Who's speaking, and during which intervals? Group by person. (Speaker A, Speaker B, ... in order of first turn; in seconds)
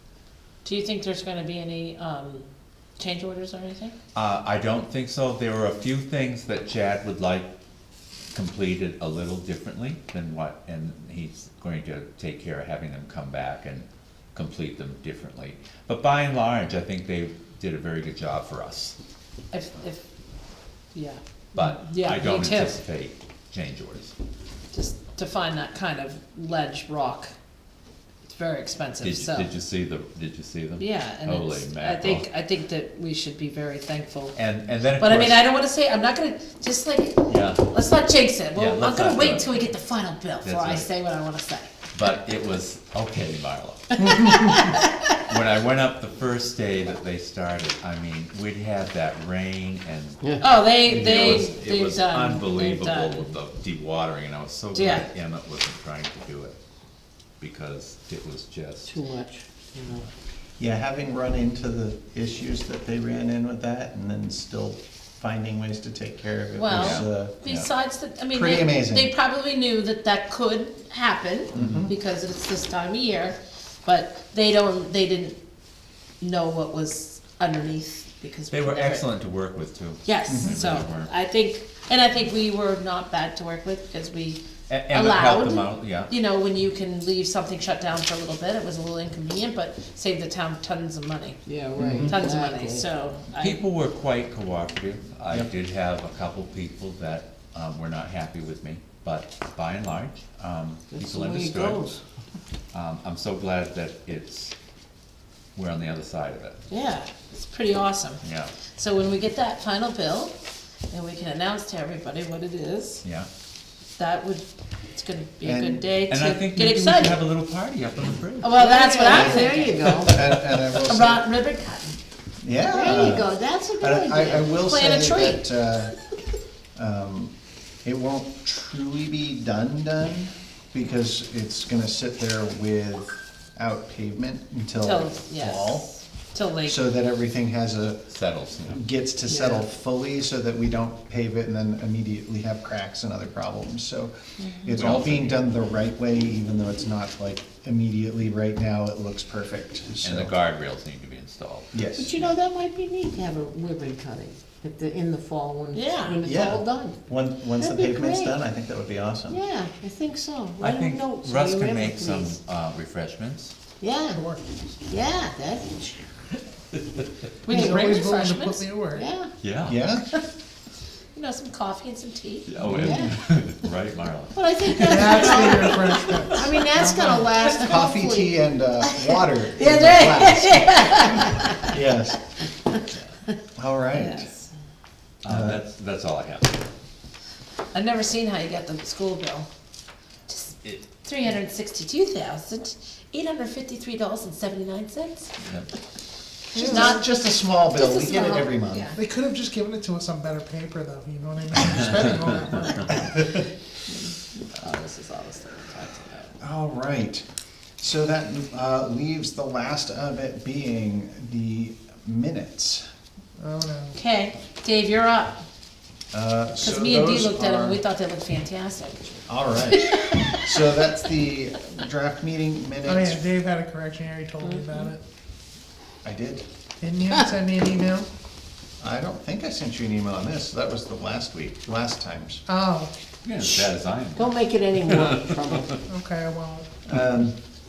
Speaker A: 0.6-2.5, 3.0-3.9, 19.5-20.0, 20.9-22.8, 24.7-27.3, 28.2-29.5, 30.8-34.4, 35.0-41.7, 44.0-45.1, 50.4-53.3, 54.7-55.0, 66.5-75.4, 76.2-79.1, 80.0-91.4, 92.0-93.6, 106.7-110.4, 110.9-113.0, 114.0-117.3, 118.4-120.0, 120.7-122.0, 124.6-125.4, 134.8-136.8, 155.7-156.2, 167.4-168.7, 171.1-173.0, 174.8-176.5, 178.9-181.7, 183.9-184.5, 187.7-189.5, 190.3-195.3, 196.5-198.9, 203.9-206.3, 213.9-215.4, 216.6-219.1, 219.7-220.7
Speaker B: 4.1-7.5, 8.3-18.9, 21.5-24.1, 29.0-32.3, 34.3-35.4, 37.3-37.7, 38.5-39.7, 40.4-40.9, 41.9-44.5, 45.2-56.6, 57.4-58.9, 66.7-67.7, 71.6-71.8, 78.5-81.1, 84.7-86.1, 93.3-101.9, 102.7-104.5, 105.5-106.6, 108.2-108.5, 116.1-118.6, 138.1-138.8, 144.7-145.5, 150.0-152.3, 160.6-163.5, 169.4-169.8, 172.4-174.7, 185.2-186.6, 195.4-195.7, 233.2-235.6
Speaker C: 58.8-60.1, 91.5-92.9, 100.9-102.0, 118.5-120.3, 122.7-124.6, 139.2-139.6, 152.0-157.0, 157.6-158.3, 159.3-162.3, 163.8-164.2, 164.9-166.1, 167.5-168.1, 168.9-169.3, 172.7-173.1, 174.3-178.4, 224.4-224.9, 234.2-235.8
Speaker D: 60.6-67.4, 68.3-69.1, 71.5-71.9, 80.3-80.6, 91.8-92.2, 115.4-115.9, 119.1-121.2, 122.4-125.9, 126.8-135.9, 136.6-138.1, 138.6-150.3, 151.7-152.2, 156.2-159.4, 169.7-170.1, 177.3-182.2, 183.6-184.3, 185.2-185.6, 196.5-198.9, 206.4-207.2, 207.8-212.8, 216.1-217.8, 219.3-223.2, 226.0-226.4, 228.8-232.4, 236.8-237.4
Speaker E: 164.1-164.7, 167.4-169.1, 174.7-177.3, 198.9-203.2, 213.4-214.0, 222.8-225.0, 226.8-228.1, 232.5-232.9, 235.8-236.7